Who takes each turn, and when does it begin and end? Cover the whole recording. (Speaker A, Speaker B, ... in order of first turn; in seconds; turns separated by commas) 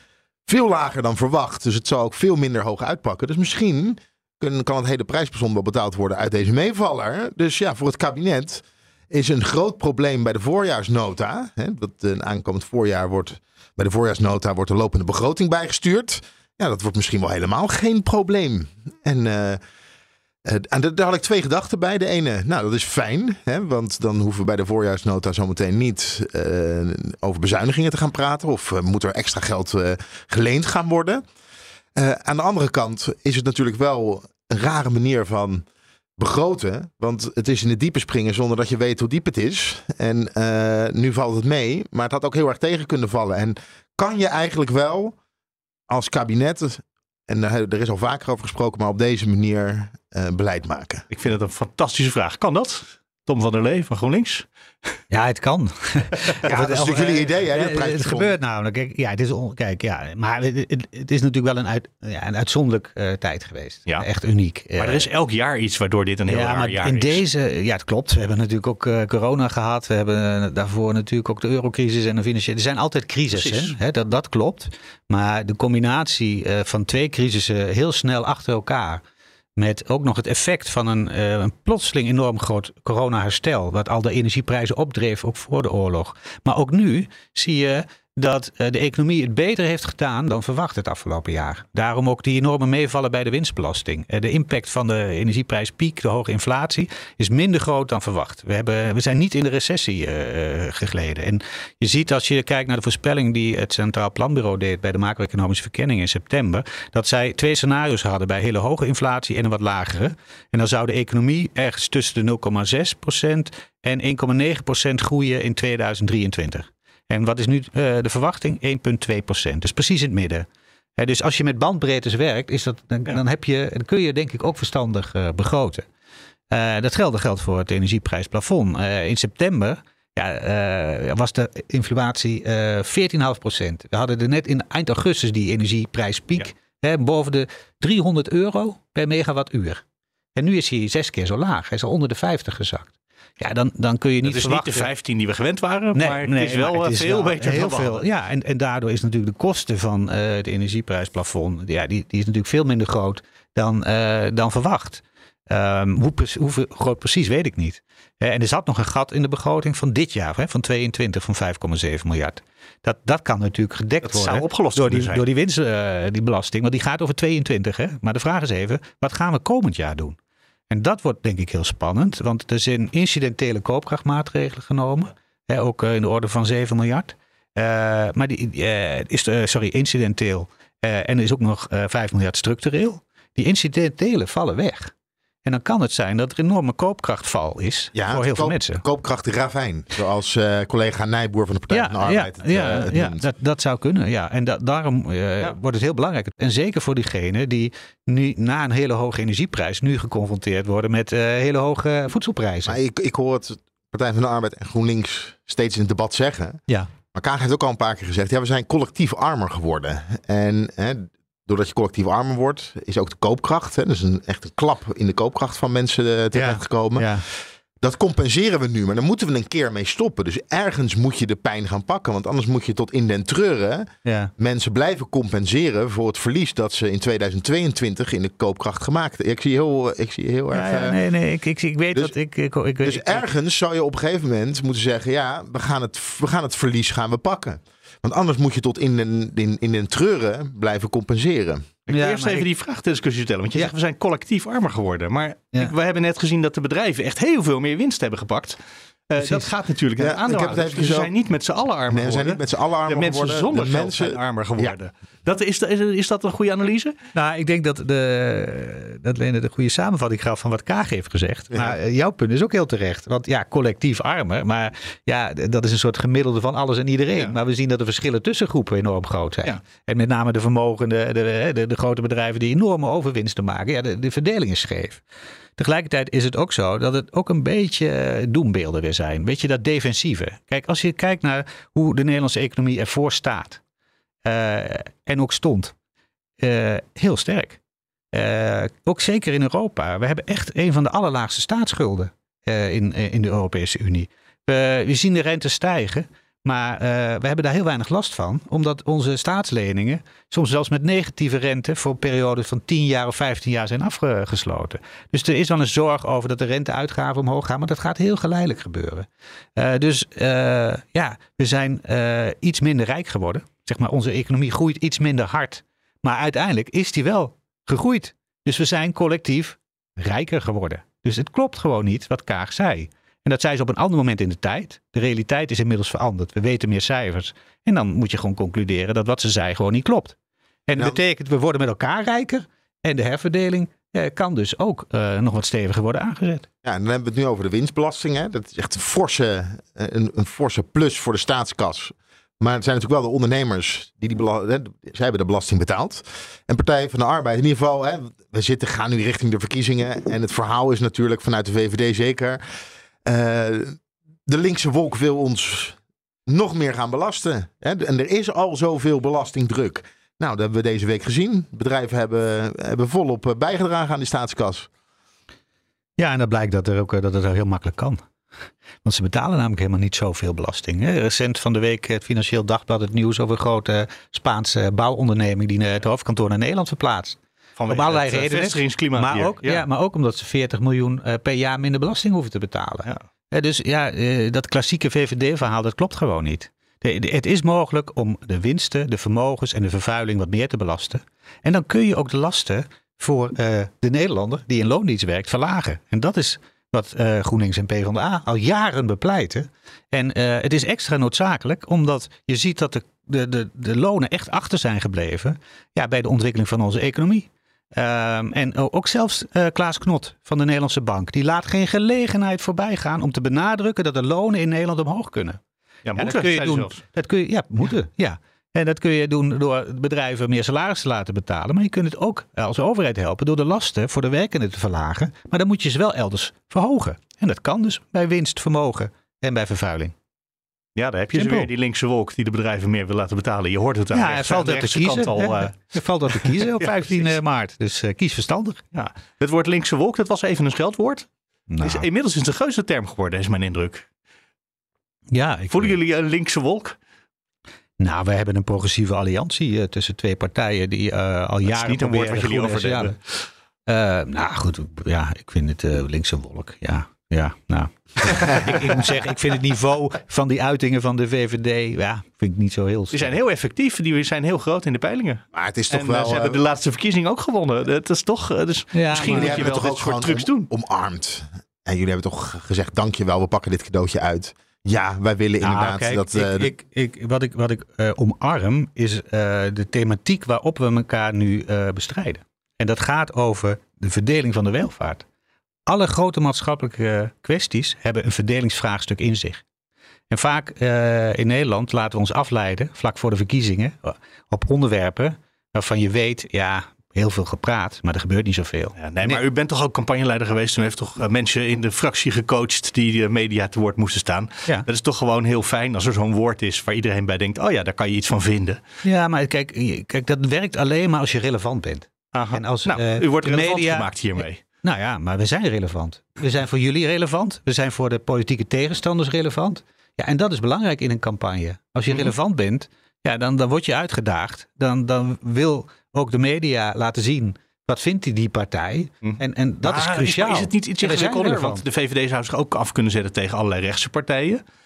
Speaker A: 0.5-19.6, Speaker A: 20.4-31.2, Speaker A: 31.9-35.6, Speaker A: 36.2-45.1, Speaker A: 45.9-51.0, Speaker B: 51.1-54.5, Speaker C: 55.1-65.1, Speaker A: 56.4-58.4, Speaker B: 64.8-67.2, Speaker C: 66.3-79.0, Speaker B: 73.3-73.7, Speaker C: 79.6-120.5, Speaker C: 121.0-125.8, Speaker C: 126.5-139.8, Speaker C: 140.3-144.9, Speaker B: 144.2-148.1, Speaker C: 145.9-170.2, Speaker B: 164.0-165.2, Speaker C: 170.7-184.9, Speaker C: 185.4-188.8, Speaker A: 187.9-193.2, Speaker C: 191.7-202.8, Speaker A: 202.7-206.6, Speaker A: 207.1-217.1, Speaker C: 216.3-217.2, Speaker A: 217.8-231.0, Speaker C: 224.0-224.3, Speaker C: 230.5-233.2, Speaker A: 232.8-241.7, Speaker B: 241.9-248.6, Speaker C: 241.9-242.4, Speaker B: 249.1-256.9, Speaker C: 249.2-249.5, Speaker A: 250.0-251.1, Speaker A: 251.9-254.7, Speaker C: 257.1-275.0, Speaker C: 275.6-283.6, Speaker C: 284.2-285.7, Speaker C: 286.4-287.6, Speaker C: 288.1-330.1, Speaker C: 330.7-336.4, Speaker A: 336.6-352.4, Speaker A: 353.0-364.7, Speaker C: 366.0-368.0, Speaker C: 368.8-377.2, Speaker B: 377.6-379.6, Speaker C: 377.7-415.4, Speaker B: 415.8-416.8, Speaker C: 415.9-429.9, Speaker B: 430.8-437.1, Speaker C: 431.1-431.5, Speaker C: 433.9-438.6, Speaker B: 438.7-441.1, Speaker C: 441.5-441.9, Speaker B: 441.6-443.9, Speaker C: 445.1-445.8, Speaker B: 445.5-446.8, Speaker C: 447.8-453.0, Speaker B: 451.5-453.1, Speaker C: 453.7-463.1, Speaker B: 462.9-470.5, Speaker A: 465.3-466.4, Speaker C: 468.7-469.5, Speaker A: 469.0-476.5, Speaker C: 475.4-485.0, Speaker C: 485.7-489.4, Speaker C: 490.1-499.2, Speaker B: 498.8-508.6, Speaker C: 508.8-531.6, Speaker B: 512.1-514.4, Speaker B: 529.0-534.4